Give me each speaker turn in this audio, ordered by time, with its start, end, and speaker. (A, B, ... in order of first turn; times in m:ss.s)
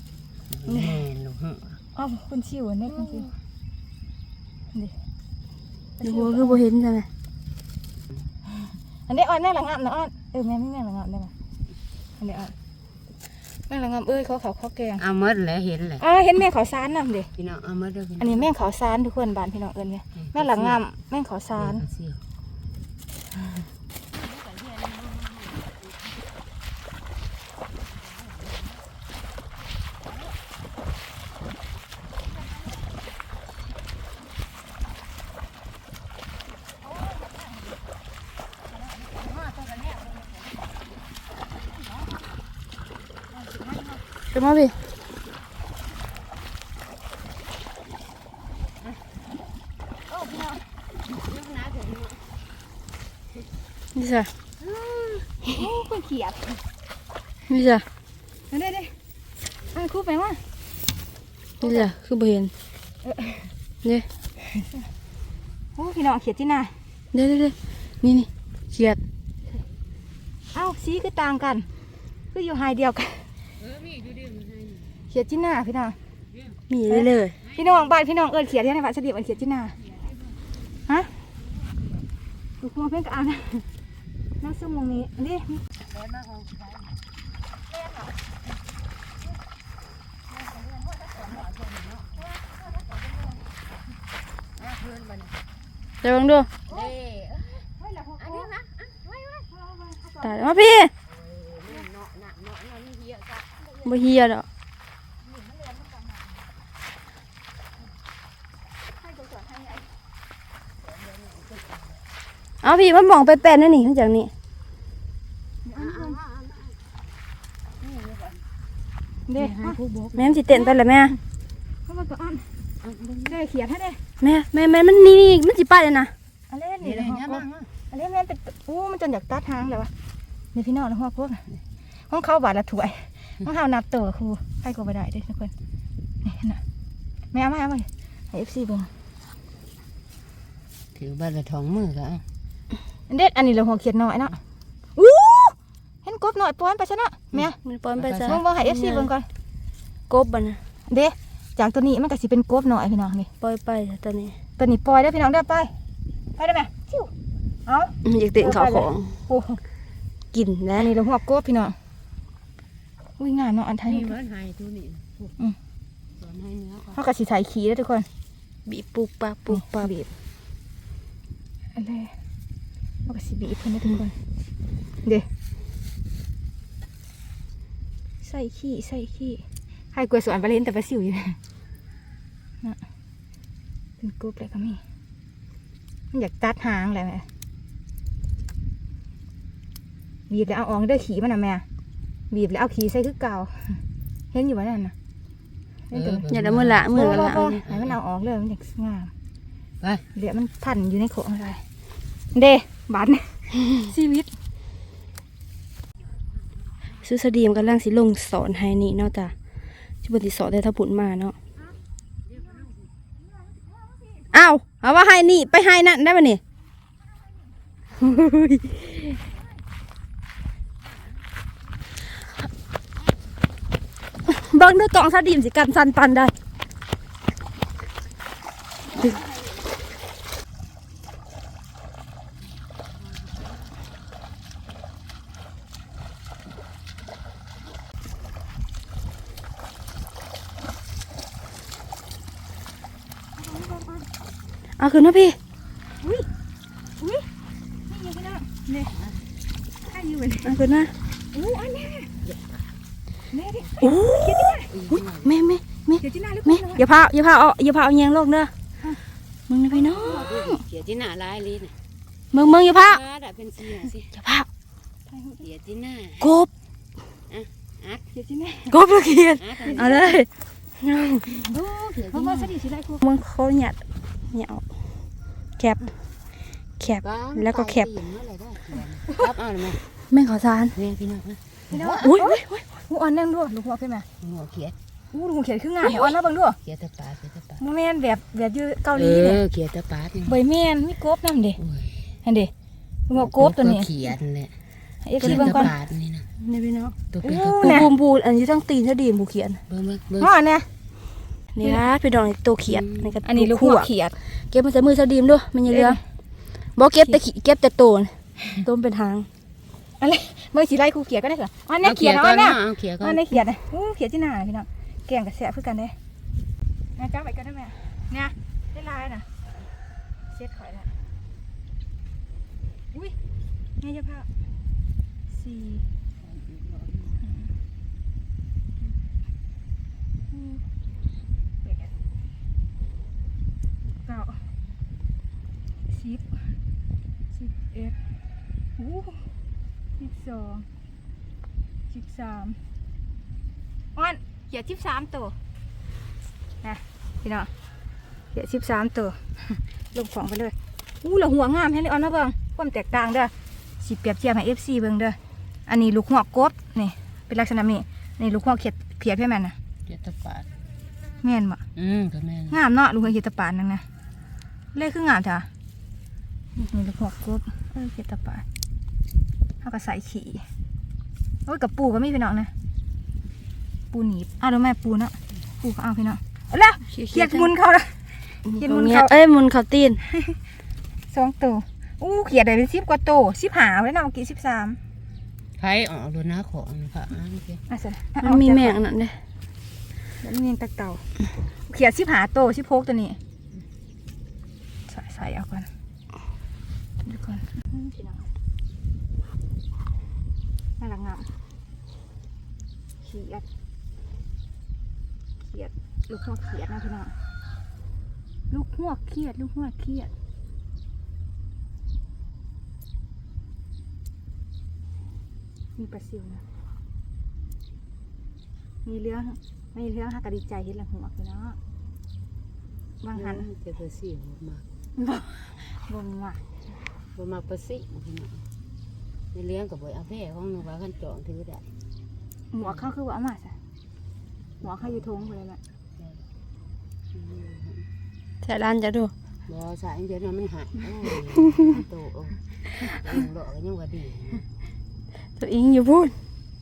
0:00.5-0:01.8 A
0:00.6-0:01.0 B
0:01.9-0:03.3 B
0:06.0-0:06.6 B
0:06.0-0:07.1 C
0:09.1-0:11.3 B
0:12.2-0:12.5 B
0:13.7-0:15.0 B
0:15.0-0:16.0 A
0:16.0-0:17.3 B
0:17.3-0:18.5 A
0:18.2-0:21.8 B
0:20.2-0:20.8 A
0:21.5-0:22.2 A
0:24.1-0:26.0 A
0:28.0-0:28.8 A
0:39.2-0:40.4 A
0:43.4-0:44.0 B
0:44.3-0:44.8 C
0:50.1-0:50.6 B
0:51.1-0:52.3 A
0:53.9-0:54.3 C
0:54.6-0:55.3 A
0:55.5-0:56.6 B
0:57.5-0:57.8 C
0:58.5-0:59.0 B
0:59.7-1:00.4 B
1:01.6-1:01.9 B
1:01.6-1:02.5 C
1:03.0-1:03.5 B
1:05.8-1:06.7 B
1:07.1-1:09.0 C
1:10.5-1:11.7 B
1:12.3-1:13.3 B
1:13.6-1:15.0 A
1:15.1-1:16.0 B
1:16.3-1:16.6 A
1:16.7-1:17.3 C
1:16.9-1:19.8 B
1:17.4-1:17.9 A
1:22.6-1:23.6 B
1:24.4-1:25.6 B
1:25.8-1:26.9 A
1:31.0-1:32.2 A
1:34.5-1:35.4 A
1:36.0-1:36.5 C
1:36.7-1:39.0 A
1:37.8-1:38.2 B
1:40.2-1:40.9 C
1:41.0-1:43.5 A
1:43.8-1:44.5 C
1:49.2-1:49.8 B
1:50.8-1:52.0 A
1:52.6-1:54.3 C
1:55.6-1:56.2 B
1:55.8-1:56.8 A
1:57.8-1:58.4 A
1:59.3-1:59.8 B
1:59.4-2:00.4 A
2:00.2-2:01.2 C
2:00.5-2:01.1 B
2:01.9-2:02.5 B
2:02.8-2:03.4 A
2:03.2-2:04.0 B
2:04.2-2:06.1 C
2:06.5-2:09.9 B
2:06.8-2:07.7 A
2:10.5-2:11.4 B
2:12.1-2:15.5 B
2:16.2-2:16.6 B
2:17.3-2:18.9 B
2:20.9-2:22.2 A
2:23.1-2:24.4 B
2:25.0-2:27.6 B
2:27.6-2:29.1 C
2:28.0-2:28.4 A
2:28.2-2:29.3 B
2:30.1-2:30.6 C
2:30.9-2:33.3 B
2:33.4-2:34.4 C
2:34.6-2:35.7 B
2:36.4-2:37.1 B
2:37.6-2:39.6 B
2:38.0-2:39.1 C
2:40.3-2:40.9 C
2:40.8-2:41.8 B
2:43.2-2:44.1 B
2:43.8-2:45.3 A
2:46.2-2:47.0 A
2:46.9-2:48.1 B
2:48.6-2:49.9 C
2:49.5-2:50.1 B
2:51.7-2:52.2 B
2:53.0-2:54.2 B
2:58.2-3:01.4 B
3:04.0-3:04.8 B
3:06.1-3:07.3 B
3:10.3-3:11.6 B
3:12.3-3:13.8 B
3:14.3-3:14.9 B
3:15.9-3:16.3 B
3:15.9-3:18.0 A
3:16.3-3:17.5 C
3:16.9-3:19.1 B
3:20.1-3:21.6 B
3:22.3-3:24.3 B
3:27.0-3:29.3 C
3:30.0-3:31.4 C
3:32.3-3:32.7 A
3:34.3-3:36.4 C
3:38.0-3:39.2 C
3:44.3-3:46.3 C
4:03.4-4:04.1 B
4:04.8-4:05.4 C
4:06.0-4:06.3 B
4:07.0-4:07.3 B
4:07.9-4:08.9 B
4:09.9-4:10.6 B
4:10.4-4:10.9 C
4:11.3-4:12.1 B
4:12.2-4:12.7 A
4:13.3-4:14.7 B
4:13.8-4:18.5 C
4:14.7-4:15.3 A
4:16.0-4:16.8 B
4:19.5-4:20.6 C
4:19.9-4:21.8 A
4:22.3-4:23.0 C
4:22.6-4:24.1 A
4:24.1-4:24.5 C
4:25.1-4:25.4 B
4:25.4-4:26.3 A
4:26.2-4:26.5 C
4:27.3-4:28.0 A
4:28.1-4:28.8 B
4:28.7-4:30.3 C
4:29.4-4:30.0 A
4:30.8-4:31.3 C
4:31.3-4:33.0 B
4:31.8-4:32.5 A
4:33.0-4:34.6 C
4:36.8-4:37.9 C
4:37.0-4:39.8 A
4:40.1-4:40.8 C
4:40.7-4:42.1 A
4:41.7-4:44.0 B
4:42.0-4:42.6 C
4:44.2-4:44.8 A
4:45.1-4:46.6 B
4:46.6-4:47.6 A
4:47.6-4:49.4 B
4:48.9-4:50.4 A
4:50.2-4:51.6 B
4:51.6-4:52.2 A
4:52.2-4:52.5 B
4:53.1-4:53.9 B
4:53.1-4:54.6 A
4:55.0-4:55.7 B
4:55.2-4:55.7 C
4:55.2-4:56.3 A
4:56.4-4:59.6 C
4:57.1-4:57.9 A
4:57.2-4:57.9 B
4:59.7-5:00.3 A
5:00.2-5:00.7 B
5:01.5-5:06.0 C
5:02.6-5:03.1 A
5:03.2-5:04.2 B
5:05.7-5:06.0 B
5:06.8-5:09.3 C
5:10.0-5:16.0 B
5:11.8-5:13.4 A
5:17.0-5:19.3 B
5:20.3-5:20.9 B
5:23.8-5:24.3 B
5:25.3-5:25.8 B
5:26.2-5:27.2 A
5:30.3-5:30.6 B
5:31.6-5:31.9 B
5:34.0-5:34.4 B
5:35.9-5:36.6 B
5:37.3-5:38.0 B
5:38.8-5:39.3 B
5:40.0-5:40.7 B
5:41.9-5:42.6 B
5:44.0-5:45.3 B
5:46.6-5:47.5 B
5:48.3-5:59.6 B
5:59.9-6:00.5 A
6:01.2-6:01.6 B
6:01.7-6:02.6 A
6:02.5-6:03.8 B
6:04.7-6:05.5 B
6:06.6-6:08.4 B
6:09.6-6:10.5 B
6:11.4-6:12.5 B
6:13.9-6:17.9 B
6:16.9-6:17.5 C
6:18.4-6:19.1 B
6:18.5-6:20.0 C
6:21.1-6:24.8 B
6:25.6-6:27.6 A
6:27.7-6:28.8 B
6:28.2-6:29.2 C
6:30.2-6:31.0 B
6:31.7-6:33.2 B
6:34.9-6:35.7 B
6:37.0-6:38.3 B
6:40.8-6:41.3 B
6:43.0-6:43.4 B
6:45.5-6:47.2 B
6:48.5-6:50.1 B
6:55.8-6:56.4 B
6:58.8-7:01.6 B
7:03.0-7:03.4 B
7:03.1-7:04.6 A
7:05.0-7:06.4 B
7:07.1-7:08.4 A
7:09.3-7:11.7 A
7:12.5-7:13.6 B
7:12.6-7:12.9 A
7:14.6-7:15.6 B
7:16.0-7:16.2 A
7:17.1-7:17.9 A
7:18.4-7:19.1 C
7:19.4-7:24.4 A
7:25.4-7:26.2 C